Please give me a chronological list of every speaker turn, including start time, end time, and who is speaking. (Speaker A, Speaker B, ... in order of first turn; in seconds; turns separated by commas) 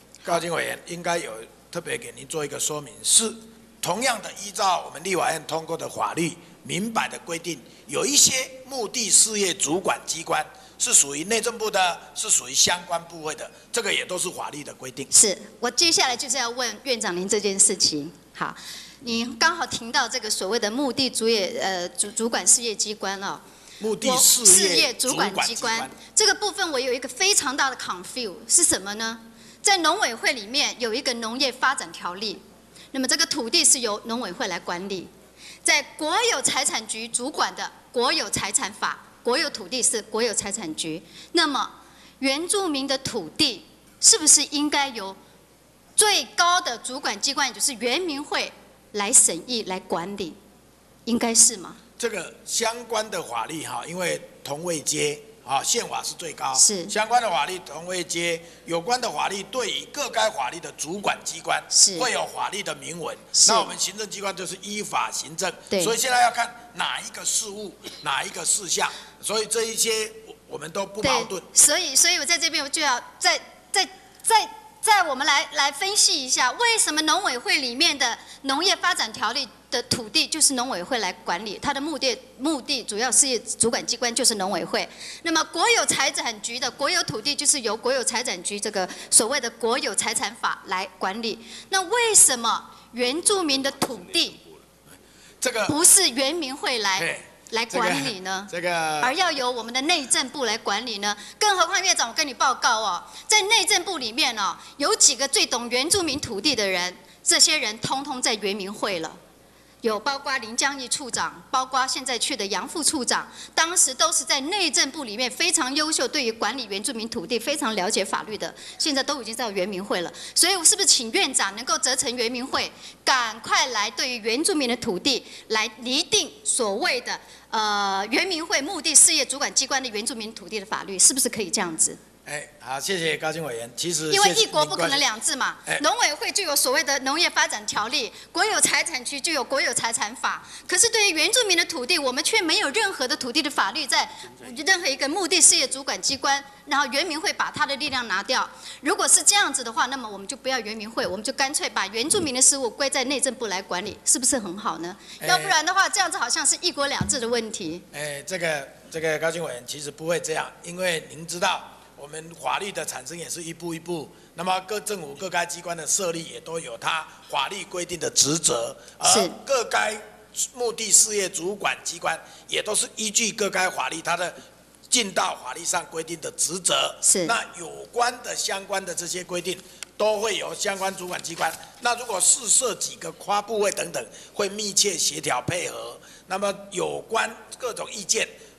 Speaker A: 0.2-15.1, Speaker B: 15.1-23.4, Speaker A: 23.8-25.9, Speaker B: 24.0-35.1, Speaker B: 35.6-45.2, Speaker B: 46.0-50.4, Speaker B: 51.0-51.8, Speaker A: 52.0-71.5, Speaker B: 56.5-56.9, Speaker B: 61.7-62.1, Speaker B: 63.3-63.7, Speaker B: 65.7-65.9, Speaker B: 71.0-94.4, Speaker A: 95.4-95.7, Speaker B: 95.7-109.2, Speaker A: 97.0-99.1, Speaker B: 109.8-132.0, Speaker A: 132.2-135.0, Speaker B: 134.1-157.8, Speaker A: 155.2-155.6, Speaker A: 157.9-174.4, Speaker B: 169.0-169.3, Speaker A: 174.9-188.3, Speaker B: 177.0-177.3